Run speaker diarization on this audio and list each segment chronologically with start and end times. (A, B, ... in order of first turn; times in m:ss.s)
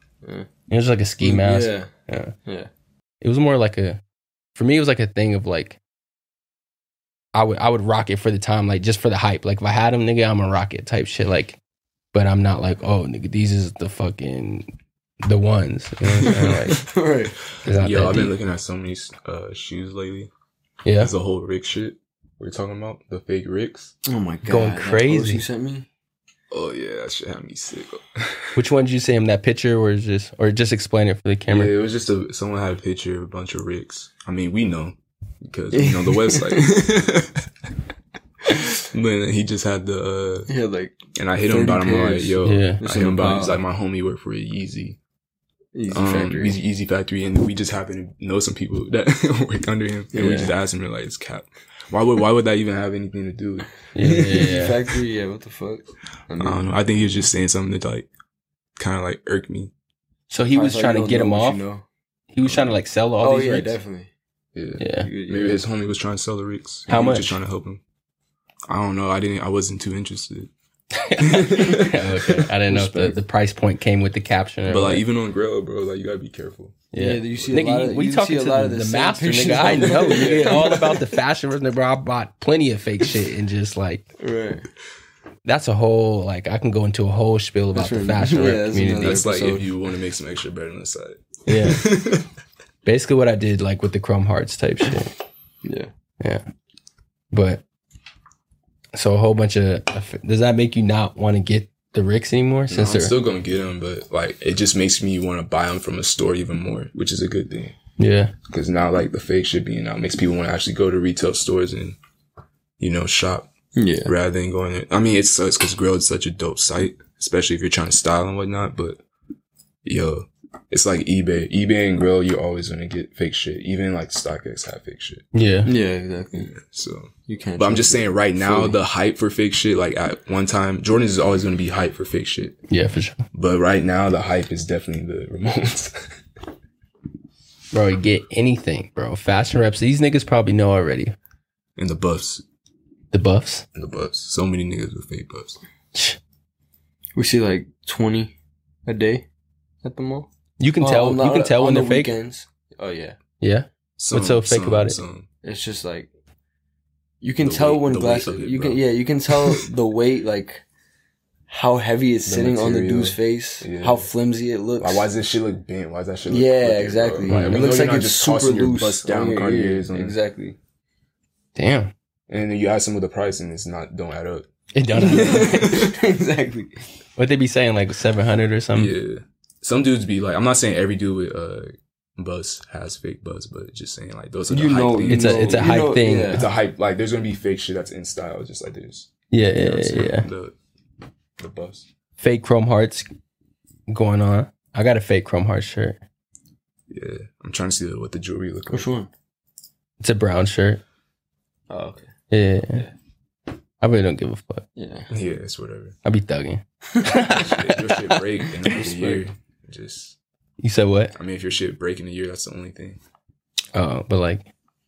0:00.2-0:00.5 A
0:00.7-0:02.3 B
0:01.2-0:01.9 A
0:02.4-0:02.7 A
0:03.2-0:04.0 B
0:04.5-0:05.8 B
0:07.3-0:11.6 B
0:12.1-0:14.7 B
0:15.2-0:16.8 B
0:16.2-0:17.4 A
0:17.6-0:18.3 B
0:17.8-0:20.3 C
0:20.8-0:21.1 B
0:21.0-0:23.9 C
0:24.0-0:25.9 A
0:24.4-0:25.4 B
0:26.5-0:28.6 C
0:28.6-0:31.7 B
0:31.5-0:37.5 C
0:35.7-0:37.0 A
0:38.9-0:40.5 C
0:40.5-0:43.6 A
0:41.1-0:45.0 C
0:42.4-0:42.8 B
0:45.7-0:46.6 A
0:45.9-0:54.5 C
0:50.1-0:50.5 A
0:53.9-0:54.7 B
0:54.0-0:56.7 A
0:56.4-0:58.1 C
0:58.8-0:59.7 C
1:00.3-1:01.6 B
1:00.5-1:01.8 A
1:02.3-1:03.7 B
1:02.4-1:02.7 C
1:03.2-1:04.1 A
1:04.5-1:07.8 C
1:04.8-1:05.1 B
1:05.0-1:05.6 A
1:06.9-1:07.4 B
1:08.7-1:10.5 C
1:10.9-1:15.0 B
1:11.2-1:12.4 C
1:12.7-1:13.2 A
1:14.7-1:16.8 C
1:16.9-1:24.0 B
1:16.9-1:21.1 A
1:20.0-1:20.7 C
1:24.2-1:24.6 A
1:25.4-1:29.2 B
1:27.7-1:29.7 A
1:29.0-1:32.3 C
1:31.5-1:31.9 B
1:32.8-1:35.1 B
1:35.6-1:35.9 A
1:37.3-1:37.6 B
1:38.9-1:43.1 B
1:42.7-1:47.8 C
1:48.0-1:48.3 B
1:48.5-1:52.0 C
1:52.8-1:53.5 C
1:53.8-1:54.1 A
1:54.0-1:59.0 C
1:59.8-2:05.2 C
2:05.3-2:05.7 B
2:05.6-2:06.5 A
2:06.4-2:12.6 C
2:07.3-2:08.8 A
2:12.7-2:13.2 B
2:13.3-2:16.1 C
2:17.7-2:21.1 B
2:21.8-2:22.4 C
2:23.1-2:23.6 B
2:23.7-2:25.6 C
2:27.2-2:28.3 A
2:28.8-2:29.2 A
2:29.8-2:30.3 A
2:30.6-2:32.1 B
2:30.8-2:33.2 A
2:33.4-2:35.0 B
2:34.0-2:35.3 C
2:35.4-2:36.1 A
2:37.2-2:40.6 A
2:37.4-2:39.7 C
2:41.5-2:45.0 A
2:42.2-2:44.1 C
2:44.8-2:50.2 C
2:46.2-2:50.6 A
2:47.3-2:47.7 B
2:51.6-2:51.9 B
2:52.3-2:54.5 C
2:54.7-2:55.6 B
2:55.0-2:56.8 A
2:55.2-2:56.0 C
2:57.2-2:58.9 B
2:58.7-3:05.8 C
3:04.5-3:06.4 A
3:05.1-3:06.4 B
3:06.3-3:10.5 C
3:09.3-3:10.3 B
3:11.4-3:11.8 C
3:12.2-3:13.0 B
3:13.9-3:16.0 B
3:16.9-3:18.9 C
3:18.7-3:19.1 A
3:20.0-3:20.8 B
3:21.7-3:22.1 A
3:22.3-3:22.9 B
3:23.8-3:24.6 B
3:24.8-3:25.1 A
3:25.1-3:26.0 C
3:26.0-3:28.2 B
3:27.3-3:30.2 C
3:28.6-3:29.2 A
3:30.6-3:31.1 B
3:31.2-3:33.0 C
3:33.7-3:34.5 B